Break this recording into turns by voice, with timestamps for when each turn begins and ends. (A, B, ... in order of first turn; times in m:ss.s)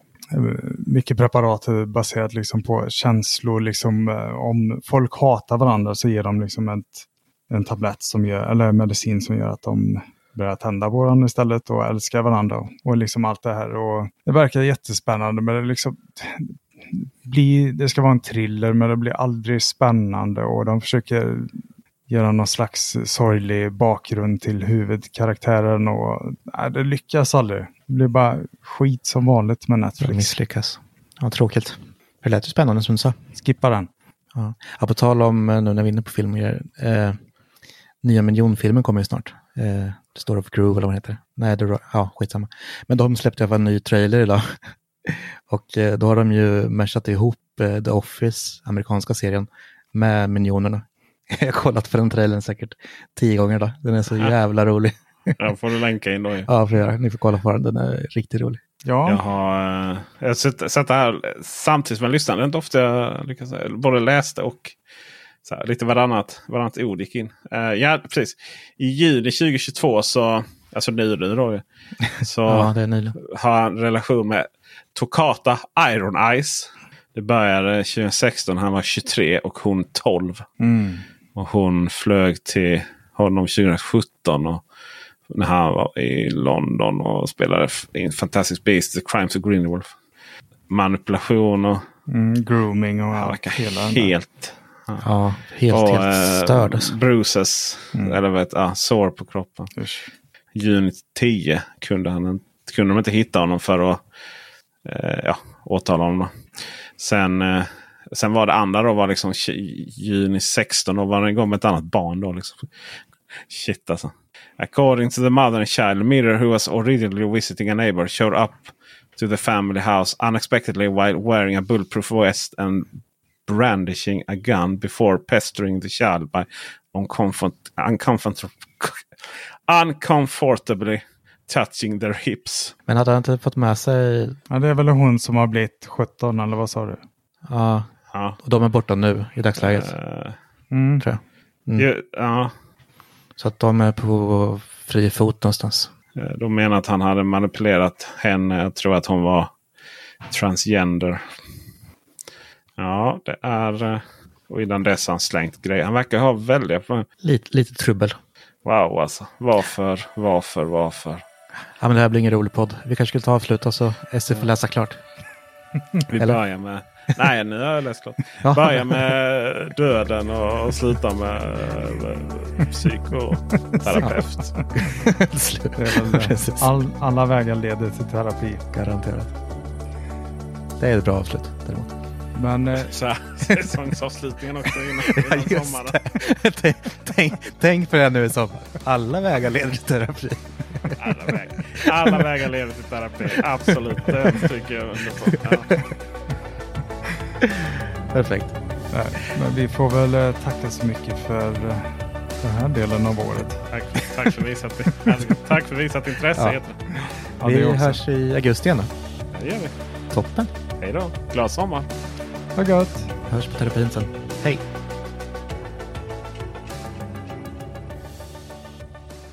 0:00.3-0:21.6 A
0:22.1-0:30.3 A
0:30.0-0:33.2 B
0:33.4-0:33.9 A
0:34.3-0:37.2 B
0:38.0-0:55.4 B
0:55.4-0:56.5 C
0:56.5-0:58.6 B
0:58.8-0:59.2 A
0:59.1-1:04.8 C
1:05.4-1:11.6 C
1:12.2-1:20.5 C
1:12.5-1:13.2 B
1:20.6-1:21.0 A
1:21.4-1:24.6 C
1:25.3-1:29.9 C
1:30.7-1:31.8 C
1:32.1-1:34.1 A
1:33.2-1:35.1 C
1:35.0-1:36.9 B
1:35.7-1:39.7 C
1:39.8-1:40.1 A
1:40.6-1:44.0 C
1:44.8-1:46.3 C
1:47.0-1:52.7 C
1:53.5-2:02.9 C
2:03.5-2:09.0 C
2:09.7-2:12.8 C
2:12.9-2:14.4 B
2:14.5-2:17.0 A
2:17.5-2:19.9 B
2:19.6-2:20.4 C
2:20.7-2:21.0 A
2:21.0-2:21.9 B
2:21.8-2:22.5 C
2:23.4-2:25.9 B
2:26.2-2:29.5 C
2:30.3-2:31.3 C
2:32.8-2:37.1 C
2:37.2-2:38.2 B
2:38.6-2:41.2 C
2:41.8-2:45.0 B
2:46.1-2:54.6 C
2:48.4-2:49.0 B
2:53.9-2:54.2 B
2:54.8-2:56.7 B
2:55.8-2:58.6 A
2:58.7-2:59.3 B
3:00.8-3:01.9 B
3:02.4-3:02.9 A
3:02.8-3:06.1 C
3:03.5-3:03.8 B
3:05.0-3:11.1 B
3:11.0-3:15.8 C
3:11.9-3:12.3 B
3:14.0-3:14.4 B
3:15.3-3:15.8 B
3:17.4-3:18.6 B
3:18.9-3:23.6 A
3:23.7-3:26.8 C
3:27.4-3:28.0 A
3:27.4-3:28.9 B
3:29.4-3:29.7 C
3:30.1-3:30.5 B
3:30.8-3:31.9 C
3:32.6-3:33.1 A
3:33.3-3:34.6 B